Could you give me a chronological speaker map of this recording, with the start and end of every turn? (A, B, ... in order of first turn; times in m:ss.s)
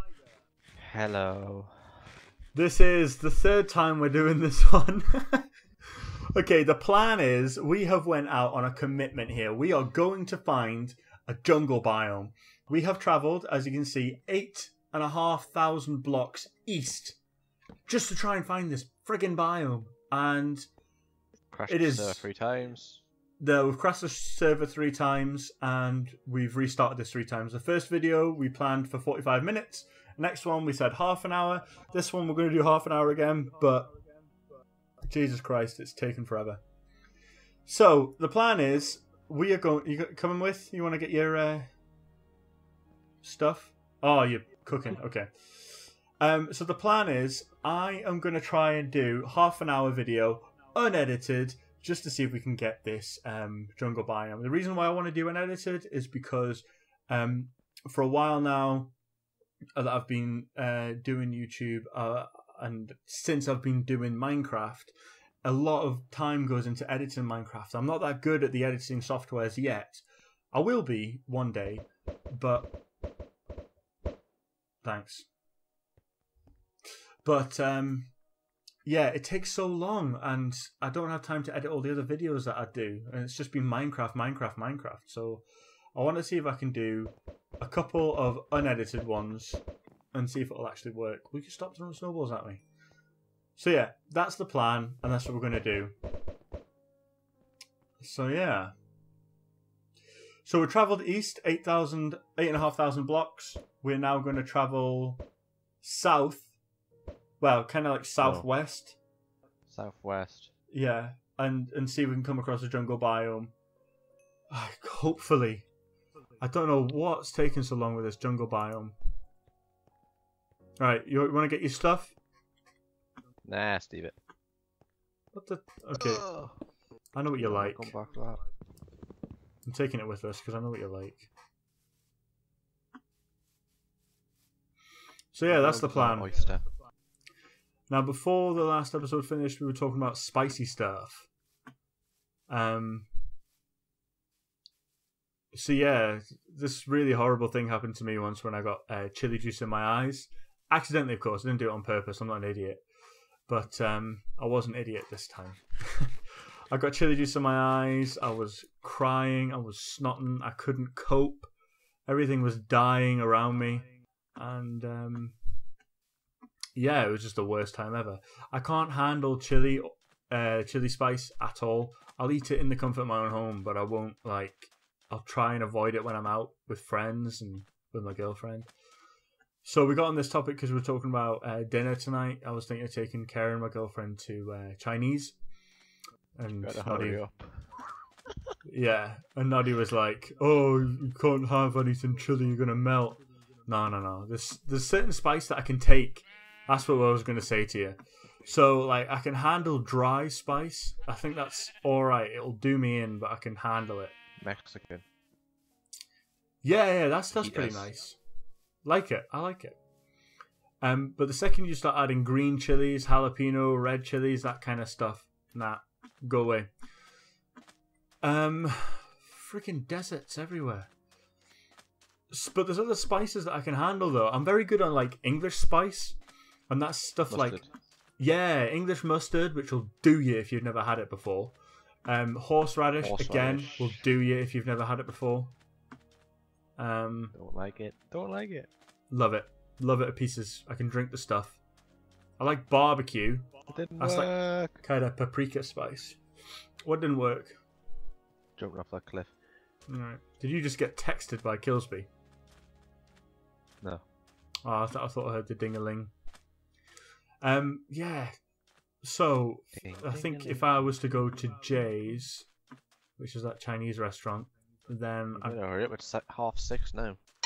0:00.7-0:02.0 A
0:02.5-0:17.2 B
0:17.9-0:20.7 B
0:21.5-0:23.0 A
0:21.7-0:22.3 B
0:23.4-0:33.9 B
0:35.1-0:36.6 B
0:37.7-0:41.7 B
0:43.2-0:58.9 B
0:59.8-1:04.9 B
1:05.4-1:12.7 B
1:14.8-1:15.3 B
1:17.2-1:18.1 B
1:18.8-1:25.4 B
1:25.9-1:32.6 B
1:33.6-1:35.9 B
1:38.0-1:38.7 B
1:40.4-1:45.2 B
1:45.8-1:46.5 B
1:47.4-1:49.0 B
1:48.2-1:48.5 A
1:49.7-1:50.5 A
1:50.7-1:53.5 B
1:54.5-1:55.6 B
1:56.4-1:58.9 B
2:00.8-2:02.1 B
2:03.4-2:04.2 A
2:05.3-2:06.3 B
2:06.0-2:06.6 A
2:07.1-2:07.9 B
2:07.4-2:08.4 A
2:09.6-2:11.3 B
2:15.3-2:16.3 B
2:15.4-2:16.7 A
2:17.9-2:21.3 B
2:22.5-2:23.1 B
2:25.5-2:32.8 B
2:33.5-2:36.2 B
2:36.7-2:41.5 B
2:42.1-2:45.4 B
2:46.8-2:58.7 B
2:59.6-3:05.4 B
3:06.4-3:07.2 B
3:06.6-3:08.5 A
3:08.6-3:24.1 B
3:24.4-3:25.0 A
3:26.6-3:28.2 B
3:27.4-3:27.9 A
3:28.8-3:29.8 B
3:30.8-3:36.7 B
3:38.2-3:40.9 B
3:42.3-3:46.2 B
3:46.7-3:47.6 B
3:47.3-3:47.7 A
3:48.2-3:51.5 B
3:52.0-3:55.5 B
3:53.0-3:53.9 A
3:56.8-3:57.3 B
3:57.3-3:58.7 A
3:59.1-4:01.6 B
4:02.4-4:06.2 B
4:03.7-4:04.8 A
4:06.8-4:07.6 B
4:08.6-4:09.4 A
4:09.9-4:12.1 B
4:14.6-4:16.1 B
4:17.4-4:18.4 B
4:19.0-4:22.5 B
4:19.7-4:20.8 A
4:23.2-4:25.6 B
4:25.3-4:27.2 A